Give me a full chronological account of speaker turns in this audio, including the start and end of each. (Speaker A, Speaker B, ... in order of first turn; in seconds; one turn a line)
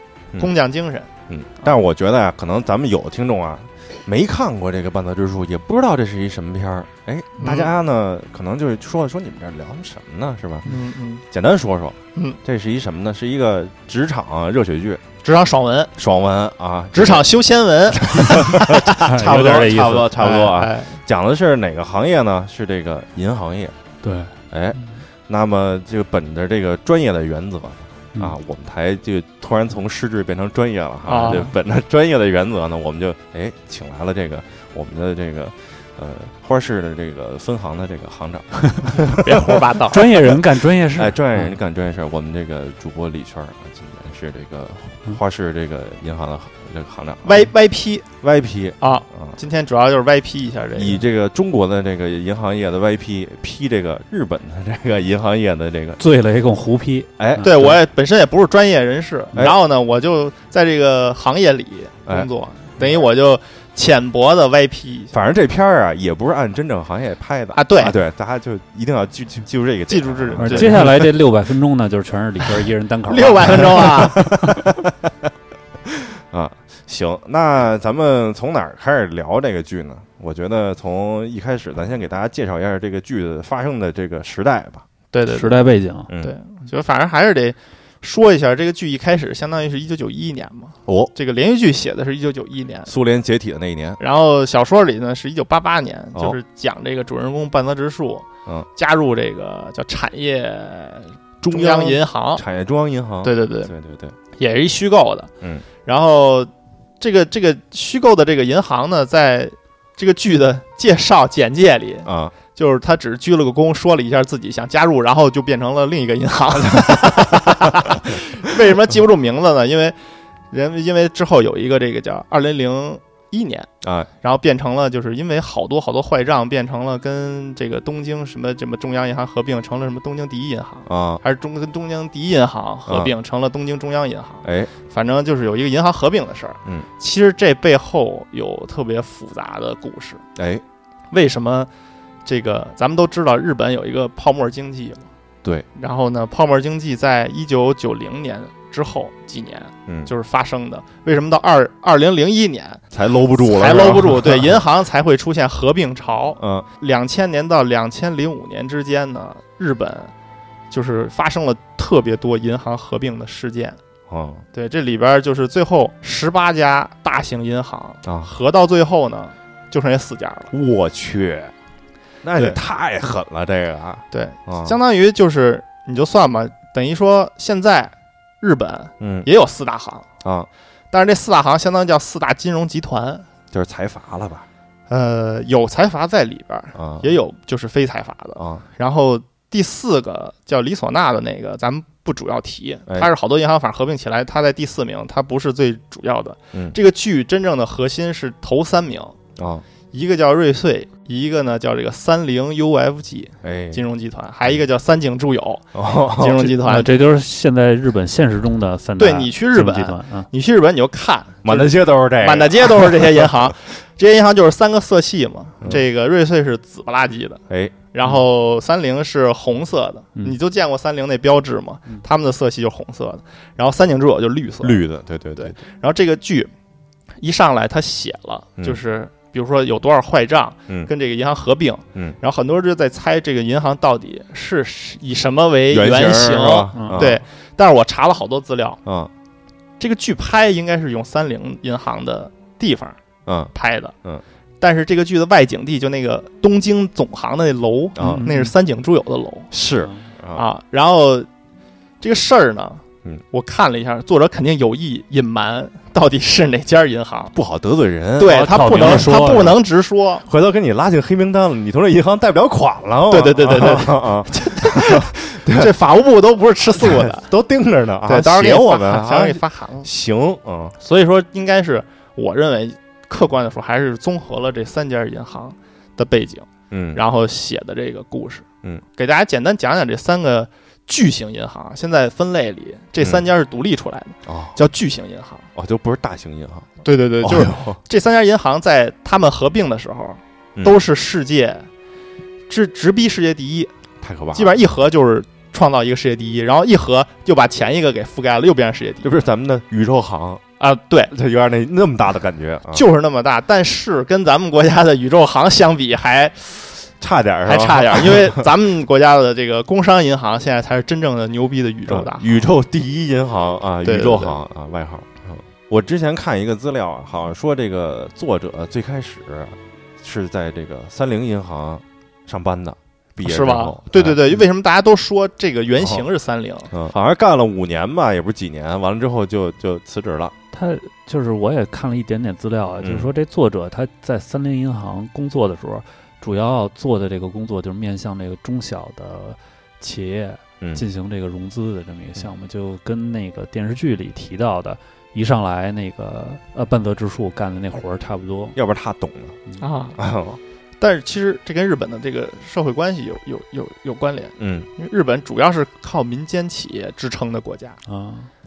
Speaker A: 0.4-1.1
Speaker B: 1.3-10.7
Speaker A: 7.4-7.7
Speaker A: 10.7-11.2
Speaker B: 11.3-15.0
Speaker A: 15.2-15.9
Speaker B: 16.0-17.3
Speaker A: 16.9-21.0
Speaker B: 17.9-23.8
Speaker C: 19.0-20.1
Speaker C: 24.0-24.9
Speaker B: 24.5-39.6
Speaker A: 31.1-31.5
Speaker C: 31.2-31.5
Speaker A: 39.1-40.1
Speaker C: 39.9-41.5
Speaker B: 41.0-47.4
Speaker A: 47.2-48.0
Speaker B: 48.2-49.4
Speaker A: 48.8-51.0
Speaker B: 50.8-56.0
Speaker C: 56.0-57.8
Speaker B: 57.2-57.5
Speaker A: 57.4-65.1
Speaker B: 65.1-71.1
Speaker A: 67.5-68.0
Speaker A: 69.9-71.1
Speaker C: 70.4-74.4
Speaker A: 73.1-74.3
Speaker B: 73.5-74.9
Speaker B: 75.9-84.8
Speaker A: 85.1-85.7
Speaker C: 85.3-86.1
Speaker A: 86.2-92.9
Speaker B: 90.9-91.1
Speaker B: 92.9-94.0
Speaker A: 94.0-102.4
Speaker B: 101.4-104.2
Speaker A: 103.2-103.7
Speaker A: 104.3-105.3
Speaker A: 105.8-120.0
Speaker B: 112.1-112.3
Speaker A: 120.5-123.7
Speaker B: 123.8-124.1
Speaker A: 124.2-140.2
Speaker B: 130.9-131.2
Speaker B: 132.9-133.1
Speaker B: 134.4-134.7
Speaker B: 140.4-140.6
Speaker A: 141.1-141.7
Speaker A: 142.3-145.1
Speaker A: 145.8-152.8
Speaker B: 152.9-154.6
Speaker A: 153.3-160.1
Speaker B: 156.4-156.7
Speaker A: 160.7-163.8
Speaker B: 164.1-164.4
Speaker A: 164.5-170.5
Speaker B: 168.0-168.3
Speaker B: 170.5-171.5
Speaker B: 172.2-174.8
Speaker A: 174.1-180.1
Speaker B: 179.0-179.3
Speaker B: 180.2-180.5
Speaker A: 180.9-183.3
Speaker B: 183.5-184.5
Speaker A: 184.9-199.2
Speaker B: 186.8-187.1
Speaker B: 188.4-188.6
Speaker B: 199.4-199.7
Speaker A: 199.9-207.0
Speaker B: 203.4-203.8
Speaker B: 205.7-206.6
Speaker C: 206.6-210.3
Speaker A: 209.0-217.4
Speaker B: 211.4-213.4
Speaker B: 217.5-217.8
Speaker A: 217.9-224.8
Speaker B: 224.6-225.6
Speaker A: 225.4-226.5
Speaker A: 227.2-238.8
Speaker B: 235.7-237.2
Speaker C: 236.8-237.1
Speaker B: 238.8-239.1
Speaker A: 239.8-243.0
Speaker B: 243.3-243.5
Speaker A: 243.5-243.9
Speaker A: 244.6-249.5
Speaker B: 248.0-248.3
Speaker C: 248.0-248.5
Speaker B: 249.5-250.4
Speaker A: 250.3-251.3
Speaker A: 252.0-257.3
Speaker B: 257.3-259.5
Speaker A: 258.2-260.2
Speaker C: 258.2-259.6
Speaker B: 260.2-265.8
Speaker A: 263.1-267.3
Speaker B: 266.8-270.8
Speaker A: 268.1-269.9
Speaker A: 270.8-285.5
Speaker B: 276.7-277.0
Speaker B: 283.0-283.3
Speaker B: 284.3-284.6
Speaker B: 285.6-287.8
Speaker A: 286.8-291.7
Speaker A: 292.5-293.7
Speaker B: 294.0-294.6
Speaker A: 294.3-299.1
Speaker B: 299.0-300.4
Speaker A: 300.6-301.1
Speaker B: 301.1-302.8
Speaker A: 302.7-306.9
Speaker B: 307.0-308.5
Speaker A: 307.4-312.4
Speaker B: 311.9-324.2
Speaker A: 313.8-314.4
Speaker A: 323.2-326.7
Speaker B: 325.8-326.1
Speaker B: 326.7-330.3
Speaker C: 330.5-348.6
Speaker B: 332.8-333.1
Speaker B: 348.6-349.4
Speaker A: 349.6-350.0
Speaker B: 350.0-350.4
Speaker A: 350.8-357.8
Speaker B: 354.4-354.7
Speaker C: 357.9-358.3